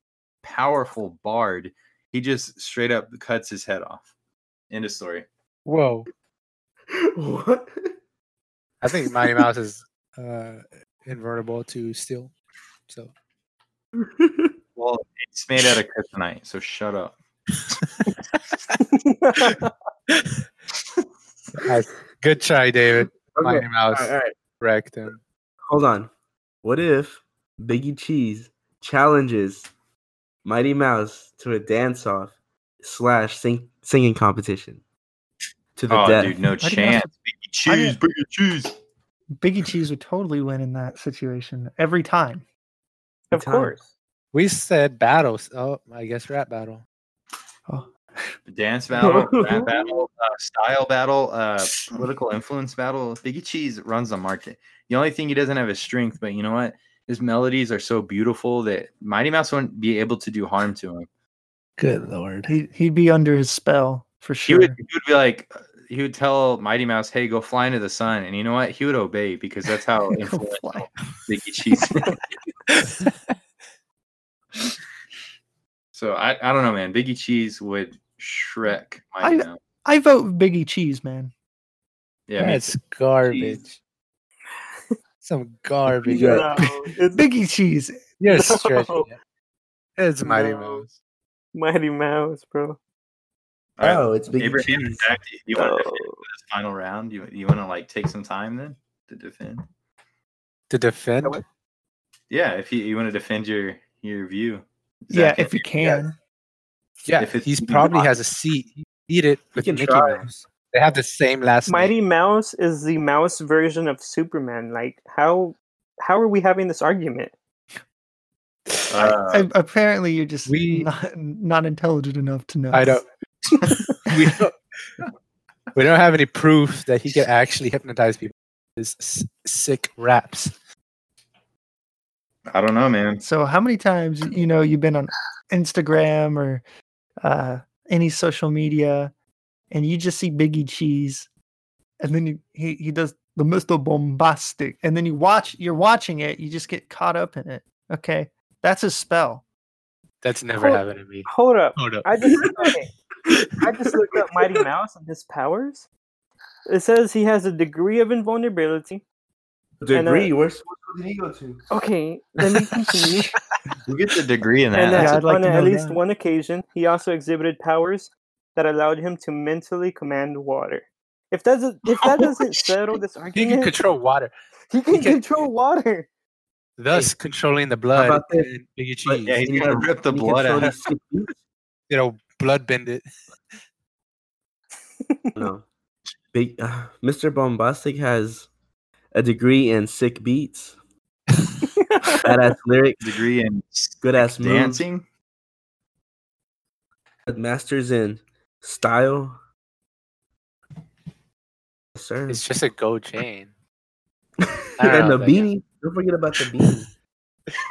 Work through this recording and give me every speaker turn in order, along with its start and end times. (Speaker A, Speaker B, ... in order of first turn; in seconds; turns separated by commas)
Speaker A: 0.4-4.1, Speaker A: 4.7-5.3, Speaker B: 5.7-6.1, Speaker C: 6.9-7.9, Speaker B: 8.8-12.3, Speaker C: 13.9-14.5, Speaker A: 14.8-17.1, Speaker D: 18.9-19.7, Speaker B: 20.1-20.4, Speaker B: 21.6-25.2, Speaker C: 23.1-24.4, Speaker C: 25.7-26.1, Speaker C: 26.6-29.7, Speaker C: 30.4-34.8, Speaker C: 35.8-36.4, Speaker A: 35.9-38.8, Speaker E: 36.6-37.1, Speaker E: 37.7-38.0, Speaker E: 39.4-42.4, Speaker D: 43.3-43.9, Speaker C: 43.3-43.7, Speaker B: 44.3-46.8, Speaker E: 47.7-48.4, Speaker A: 48.5-61.1, Speaker C: 49.0-49.7, Speaker B: 61.8-62.5, Speaker E: 62.5-64.8, Speaker A: 64.5-72.2, Speaker E: 70.2-70.9, Speaker B: 72.7-73.1, Speaker A: 75.9-79.6, Speaker E: 79.2-81.3, Speaker A: 82.3-82.7, Speaker B: 82.4-83.7, Speaker A: 83.3-83.6, Speaker B: 85.2-86.5, Speaker C: 85.9-86.5, Speaker D: 86.0-87.3, Speaker E: 87.1-88.1, Speaker B: 88.2-89.2, Speaker D: 88.3-89.1, Speaker B: 90.0-90.9, Speaker D: 90.2-90.8, Speaker D: 91.5-92.8, Speaker A: 93.8-99.6, Speaker C: 93.8-95.1, Speaker D: 95.5-96.2, Speaker B: 100.7-101.4, Speaker A: 102.3-106.0, Speaker E: 105.1-106.2, Speaker B: 107.0-111.9, Speaker A: 107.2-108.1, Speaker C: 109.6-110.5, Speaker D: 111.7-117.3, Speaker A: 118.9-119.5, Speaker E: 119.0-123.0, Speaker B: 120.5-120.9, Speaker B: 122.7-123.0, Speaker B: 124.0-124.5, Speaker B: 125.7-130.5, Speaker A: 132.5-133.2, Speaker E: 133.2-136.6, Speaker E: 137.2-139.1, Speaker E: 139.7-141.3, Speaker E: 142.0-149.4, Speaker B: 150.2-152.4, Speaker D: 150.6-152.9, Speaker D: 153.6-155.9, Speaker C: 153.6-154.6, Speaker D: 156.7-159.0, Speaker C: 159.8-161.6, Speaker D: 159.9-160.3, Speaker D: 161.7-163.4, Speaker A: 163.9-165.2, Speaker D: 164.7-173.7, Speaker E: 164.9-166.0, Speaker B: 171.9-172.4, Speaker B: 173.3-174.3, Speaker D: 174.7-176.1, Speaker B: 174.9-175.2, Speaker B: 176.8-179.5, Speaker C: 177.9-178.5, Speaker C: 179.0-181.3, Speaker A: 179.3-180.7, Speaker B: 181.9-183.0, Speaker C: 185.4-185.7, Speaker C: 186.3-188.5, Speaker C: 189.1-190.8, Speaker D: 191.7-192.3, Speaker C: 192.1-193.2, Speaker A: 193.0-195.0, Speaker C: 194.0-194.8, Speaker C: 197.3-199.3, Speaker C: 201.9-202.4, Speaker B: 202.3-203.5, Speaker C: 204.4-206.9, Speaker B: 204.8-205.5